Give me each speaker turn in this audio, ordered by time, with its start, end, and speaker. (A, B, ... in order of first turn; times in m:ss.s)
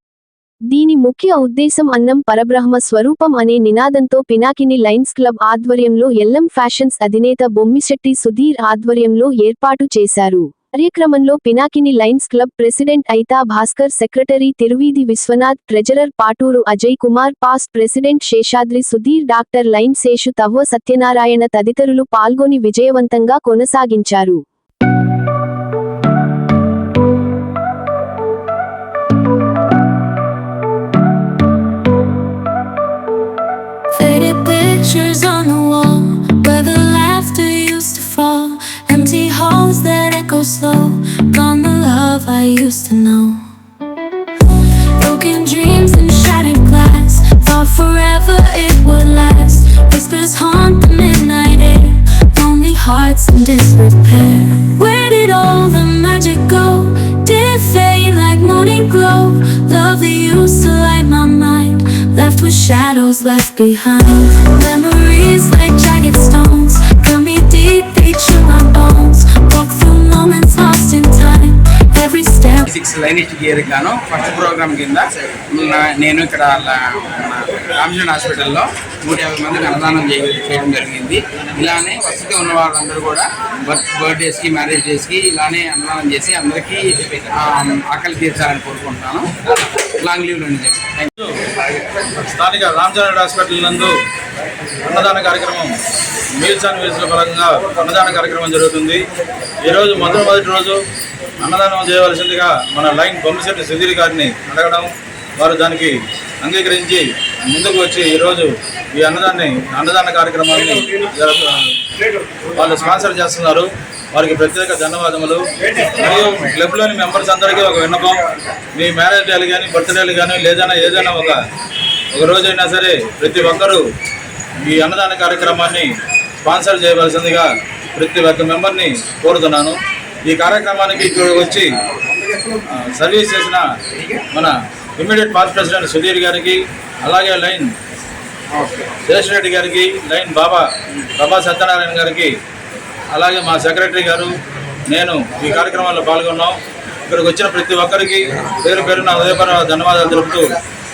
0:00.7-0:24.4 A
0:33.9-0:43.4 B
0:44.4-1:12.7 B
1:12.7-1:31.1 C
1:31.1-1:31.4 D
1:32.2-1:33.9 D
1:34.8-1:35.7 D
1:36.3-1:39.0 D
1:39.6-1:40.8 D
1:41.4-1:51.8 D
1:52.5-1:58.2 D
1:58.7-2:01.4 D
2:02.1-2:03.8 D
2:04.6-2:11.7 D
2:12.5-2:13.6 D
2:14.0-2:14.2 C
2:14.3-2:17.7 D
2:18.5-2:19.0 C
2:19.0-2:22.3 D
2:23.1-2:24.3 D
2:24.9-2:30.6 D